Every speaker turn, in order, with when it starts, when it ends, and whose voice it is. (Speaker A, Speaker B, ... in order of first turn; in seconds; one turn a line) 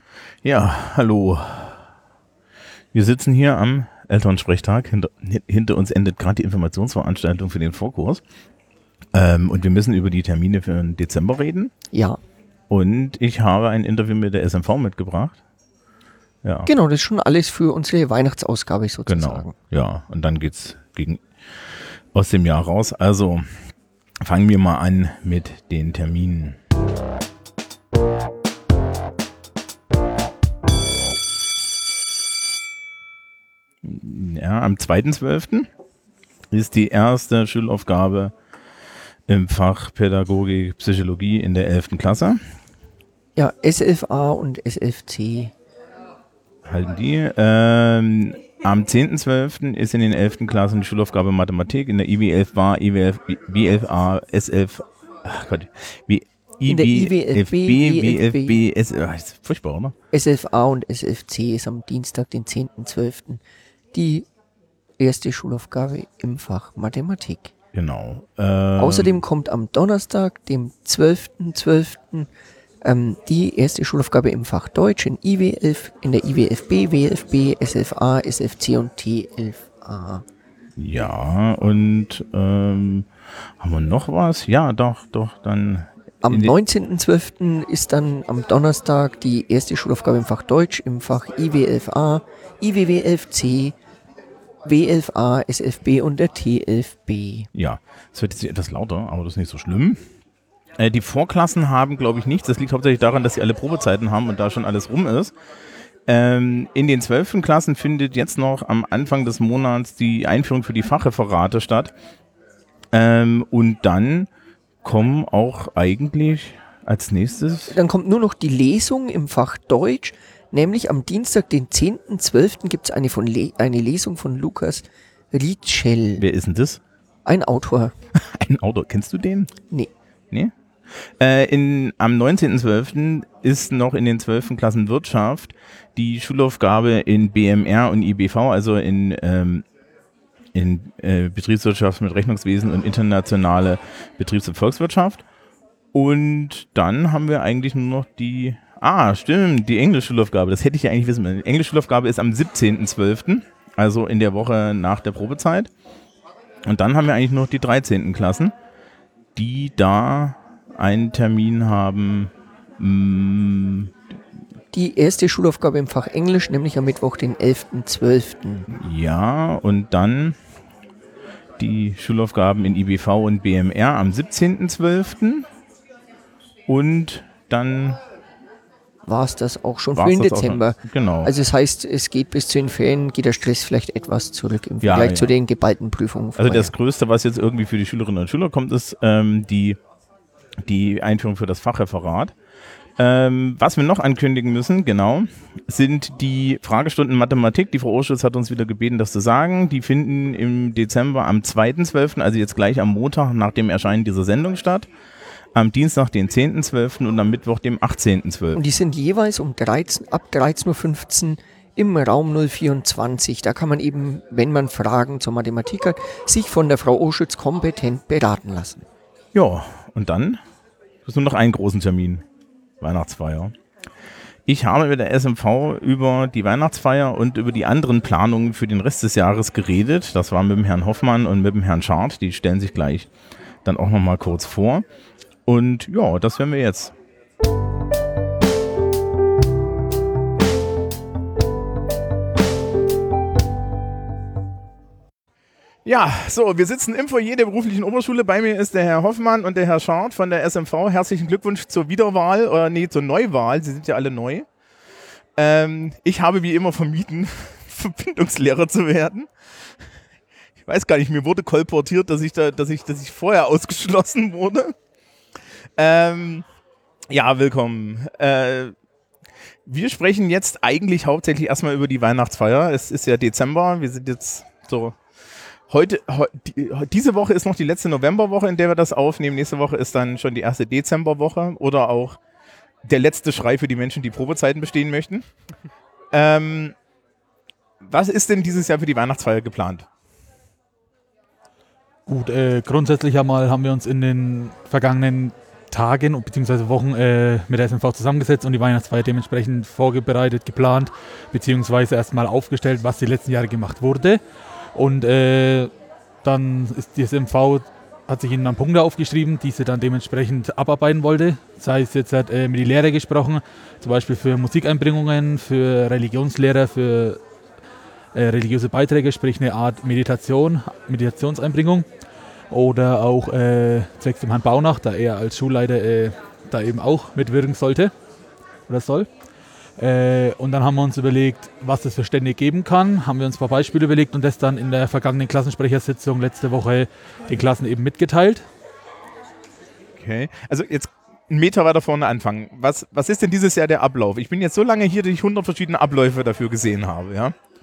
Speaker A: 0.4-1.8
Speaker A: 2.9-8.2
Speaker A: 9.1-11.7
Speaker B: 11.9-12.2
Speaker A: 12.7-15.4
Speaker A: 16.4-16.7
Speaker B: 16.7-19.5
Speaker A: 19.1-23.4
Speaker A: 24.2-26.6
Speaker A: 33.8-35.7
Speaker A: 36.5-38.3
Speaker A: 39.3-42.4
Speaker B: 43.4-45.5
Speaker A: 46.7-60.0
Speaker B: 56.7-58.6
Speaker B: 60.1-63.4
Speaker B: 63.9-64.3
Speaker B: 65.0-67.5
Speaker A: 67.7-69.2
Speaker B: 68.8-72.3
Speaker B: 72.8-80.2
Speaker A: 80.8-86.5
Speaker B: 86.2-93.8
Speaker B: 94.6-97.5
Speaker A: 97.5-100.0
Speaker A: 100.8-105.3
Speaker A: 106.1-111.9
Speaker A: 112.9-114.3
Speaker A: 114.8-117.8
Speaker B: 117.7-126.2
Speaker A: 126.2-126.8
Speaker B: 127.2-127.9
Speaker A: 128.2-129.5
Speaker A: 130.3-139.7
Speaker A: 140.6-145.2
Speaker A: 145.9-155.7
Speaker A: 156.7-158.5
Speaker A: 159.3-163.9
Speaker B: 164.7-168.7
Speaker A: 168.7-170.4
Speaker A: 171.6-175.5
Speaker A: 176.7-178.0
Speaker B: 179.1-186.7
Speaker A: 179.9-181.3
Speaker A: 184.8-185.3
Speaker A: 186.4-189.8
Speaker A: 190.6-192.3
Speaker A: 193.0-204.9
Speaker A: 205.6-208.6
Speaker B: 208.6-218.8
Speaker A: 219.3-220.4
Speaker A: 221.0-222.2
Speaker A: 222.8-223.5
Speaker A: 224.5-233.1
Speaker A: 233.7-234.8
Speaker A: 235.5-236.9
Speaker A: 245.8-254.5
Speaker A: 255.4-259.3
Speaker A: 260.6-264.7
Speaker A: 265.8-266.5
Speaker A: 267.1-268.7
Speaker A: 269.7-275.0
Speaker A: 275.7-282.2
Speaker A: 282.8-285.2
Speaker A: 286.1-286.8
Speaker A: 287.8-289.9
Speaker C: 292.1-304.2
Speaker C: 304.8-305.7
Speaker C: 306.2-317.2
Speaker C: 318.1-321.9
Speaker C: 322.5-327.9
Speaker C: 328.7-329.1
Speaker C: 329.8-338.5
Speaker A: 339.9-347.4